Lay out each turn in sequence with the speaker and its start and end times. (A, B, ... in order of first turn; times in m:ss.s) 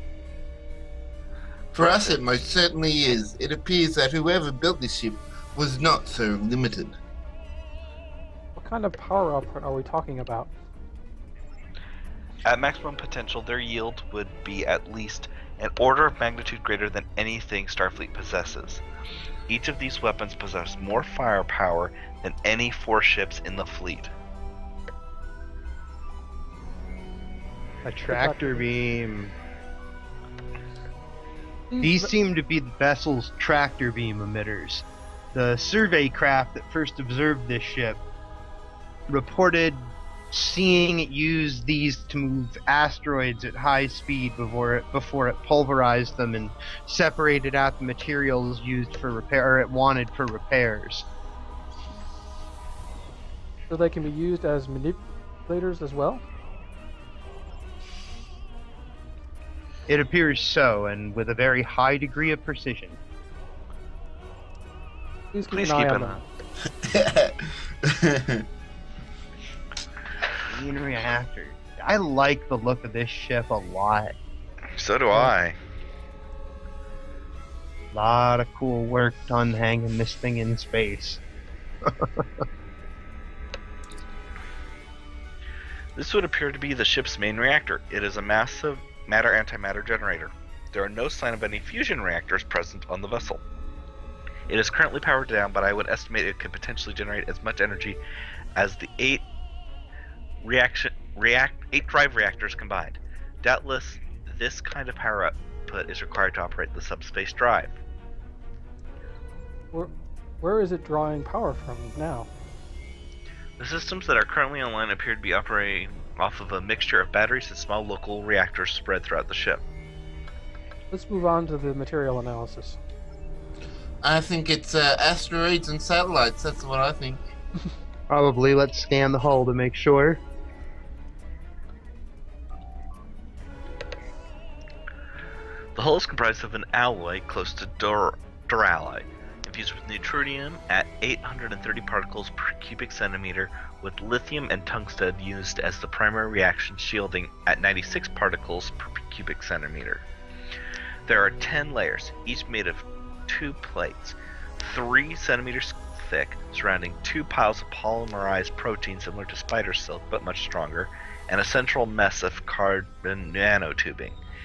0:01.7-0:02.2 A
0:01.8-0:07.0 B
0:08.6-0:10.5 C
0:12.4-0:18.8 A
0:19.5-0:24.1 A
0:27.8-0:29.3 D
0:28.1-0:28.6 C
0:31.7-0:32.1 C
0:31.8-0:38.0 D
0:39.1-0:51.1 D
0:53.7-0:56.2 C
0:59.9-1:03.0 D
1:05.3-1:06.2 C
1:05.5-1:06.2 A
1:06.6-1:08.4 B
1:10.4-1:14.1 D
1:14.8-1:15.5 A
1:17.9-1:21.2 D
1:21.8-1:22.4 D
1:26.0-1:33.4 A
1:34.5-1:38.0 A
1:38.6-1:39.2 A
1:40.4-1:47.8 A
1:49.7-1:52.3 C
1:53.6-1:59.6 A
2:00.9-2:02.8 C
2:04.0-2:07.2 B
2:08.1-2:10.2 D
2:15.7-2:30.0 A
2:31.1-2:44.2 A